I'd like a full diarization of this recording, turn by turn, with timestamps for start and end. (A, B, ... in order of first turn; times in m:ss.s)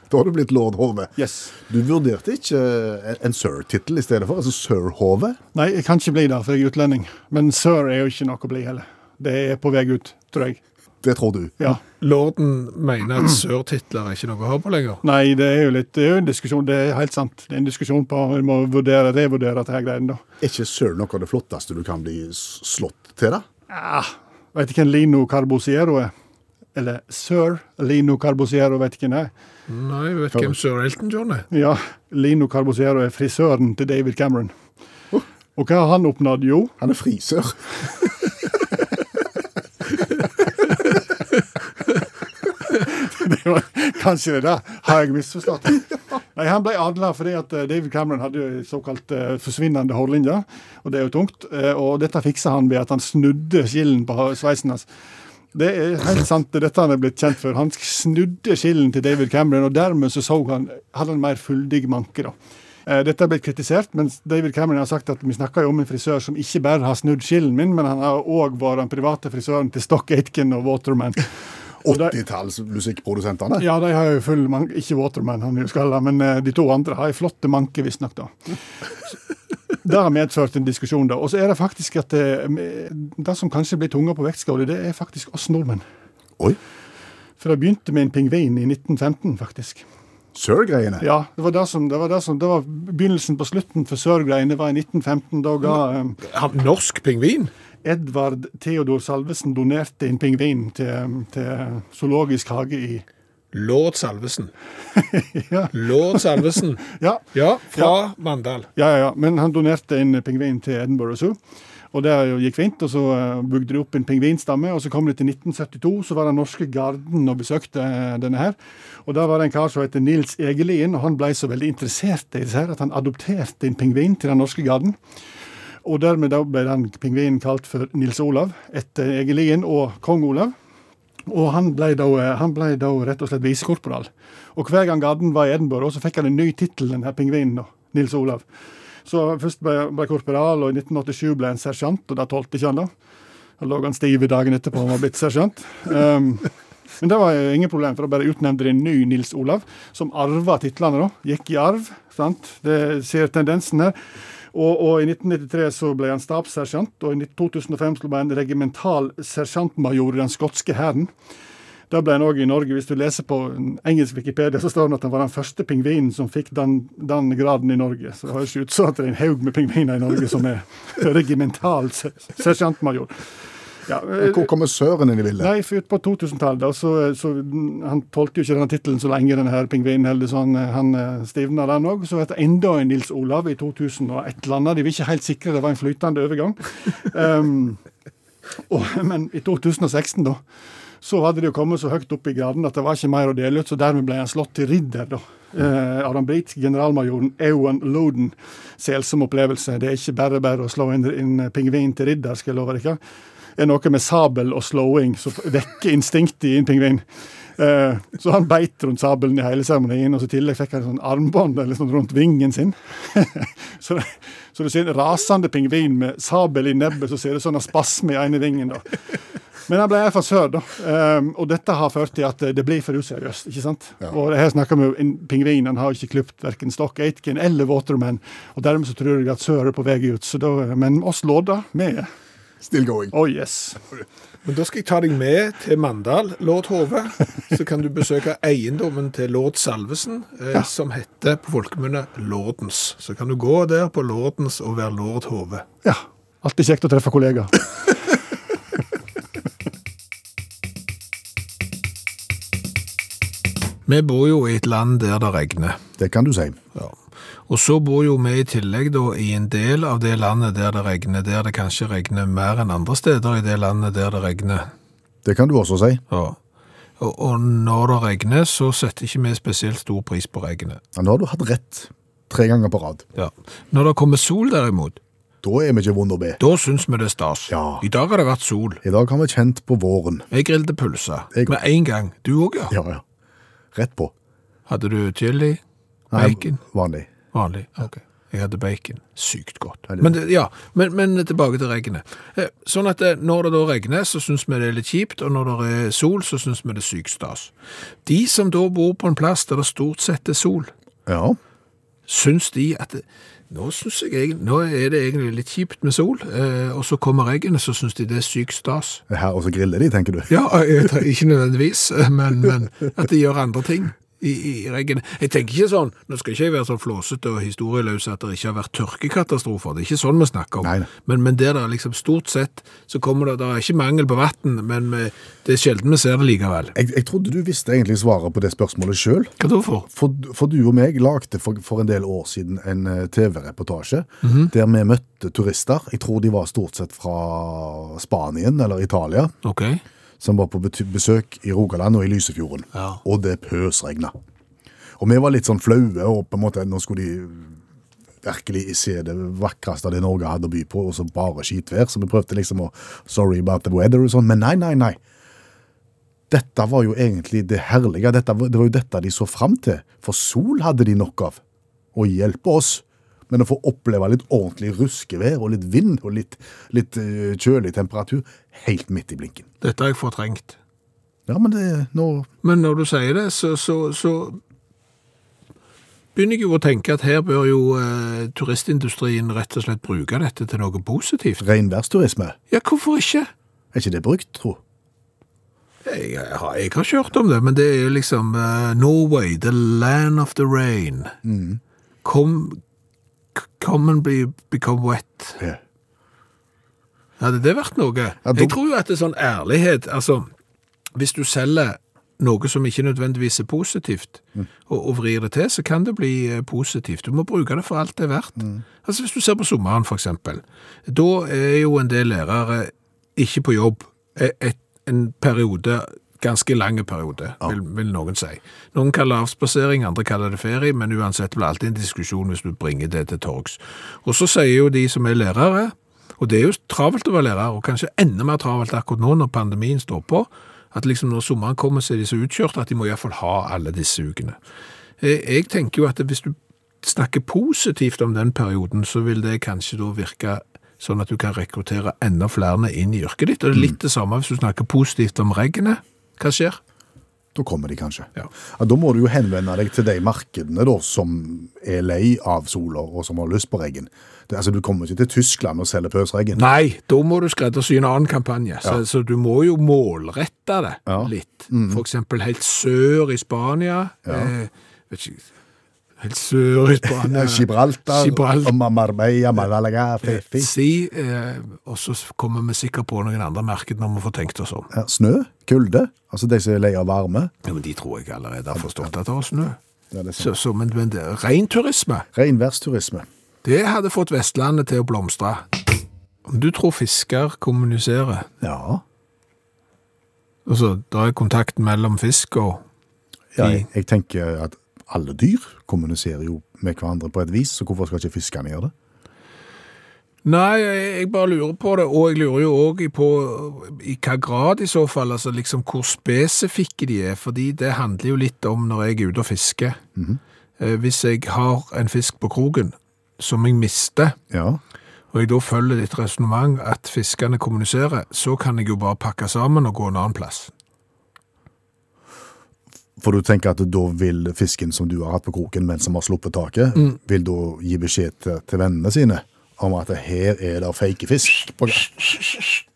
0:00.1-0:05.4 A
0:01.2-0:01.5 B
0:05.5-0:10.6 B
0:11.0-0:11.7 A
0:12.0-0:15.0 C
0:15.0-0:20.2 B
0:20.4-0:23.5 A
0:23.7-0:26.1 B
0:26.8-0:29.3 B
0:29.7-0:31.5 C
0:31.5-0:34.5 B
0:35.6-0:36.8 B
0:36.8-0:37.6 A
0:42.8-0:54.9 B
0:55.5-1:11.3 B
1:11.8-1:13.7 A
1:11.9-1:12.1 B
1:13.6-1:18.5 B
1:19.8-1:25.8 B
1:27.4-1:29.8 B
1:30.4-1:31.1 A
1:31.0-1:36.2 B
1:36.2-1:37.5 C
1:37.8-1:43.0 B
1:43.5-1:44.5 C
1:45.0-1:46.4 B
1:45.7-1:48.7 C
1:47.0-1:48.0 B
1:48.8-1:51.4 B
1:51.9-2:05.0 B
2:05.8-2:10.5 B
2:11.3-2:18.4 B
2:19.1-2:22.9 B
2:23.6-2:26.5 B
2:27.0-2:34.0 B
2:34.5-2:41.1 B
2:41.9-2:53.2 B
2:53.9-2:54.5 B
2:54.2-2:55.5 A
2:55.4-3:07.8 B
3:08.7-3:10.4 B
3:11.0-3:23.0 B
3:23.6-3:38.9 B
3:39.7-3:52.1 B
3:52.6-3:53.2 A
3:53.1-3:53.8 B
3:54.4-4:05.7 C
4:05.8-4:07.6 B
4:13.9-4:15.8 C
4:16.0-4:16.6 A
4:17.5-4:24.7 C
4:25.2-4:26.0 A
4:26.1-4:26.4 C
4:27.0-4:30.8 C
4:30.9-4:33.0 A
4:33.2-4:35.0 C
4:35.4-4:36.4 A
4:36.4-4:38.8 C
4:37.5-4:37.8 A
4:38.8-4:40.3 A
4:40.3-4:42.8 C
4:42.7-4:43.0 A
4:43.7-4:44.1 A
4:44.7-4:45.6 C
4:46.1-4:47.1 A
4:46.1-4:46.6 C
4:47.3-4:57.5 C
4:58.1-5:00.7 C
5:01.1-5:01.4 A
5:02.1-5:09.0 C
5:09.1-5:10.3 A
5:10.3-5:26.8 C
5:20.6-5:20.9 A
5:26.8-5:29.3 A
5:29.4-5:29.9 C
5:29.9-5:39.3 A
5:34.2-5:34.5 C
5:39.4-5:39.8 C
5:40.2-5:44.1 A
5:42.8-5:43.0 C
5:45.0-5:47.6 A
5:48.2-5:55.0 A
5:56.3-6:01.4 A
6:01.9-6:09.5 A
6:09.6-6:10.6 C
6:11.3-6:12.3 A
6:12.4-6:14.4 C
6:16.2-6:21.4 C
6:21.4-6:22.4 A
6:22.5-6:23.3 C
6:23.7-6:24.6 A
6:25.8-6:31.2 C
6:31.2-6:31.6 A
6:32.0-6:32.6 C
6:33.4-6:35.4 C
6:37.2-6:40.3 C
6:38.3-6:38.6 A
6:41.0-7:14.4 C
7:15.0-7:26.6 C
7:27.4-7:36.4 A
7:36.4-7:45.2 C
7:40.9-7:41.8 A
7:44.1-7:44.3 A
7:46.0-7:48.6 C
7:46.9-7:50.5 A
7:50.0-7:54.7 C
7:54.7-7:57.3 A
7:57.4-7:59.6 C
7:59.9-8:00.3 A
8:00.2-8:02.1 C
8:02.1-8:03.1 A
8:03.4-8:05.5 C
8:06.3-8:08.3 C
8:08.4-8:08.8 A
8:10.5-8:12.6 C
8:13.4-8:18.7 A
8:13.4-8:13.7 C
8:20.2-8:29.8 C
8:30.6-8:34.2 C
8:34.3-8:34.6 A
8:35.1-8:40.5 C
8:43.0-8:51.9 A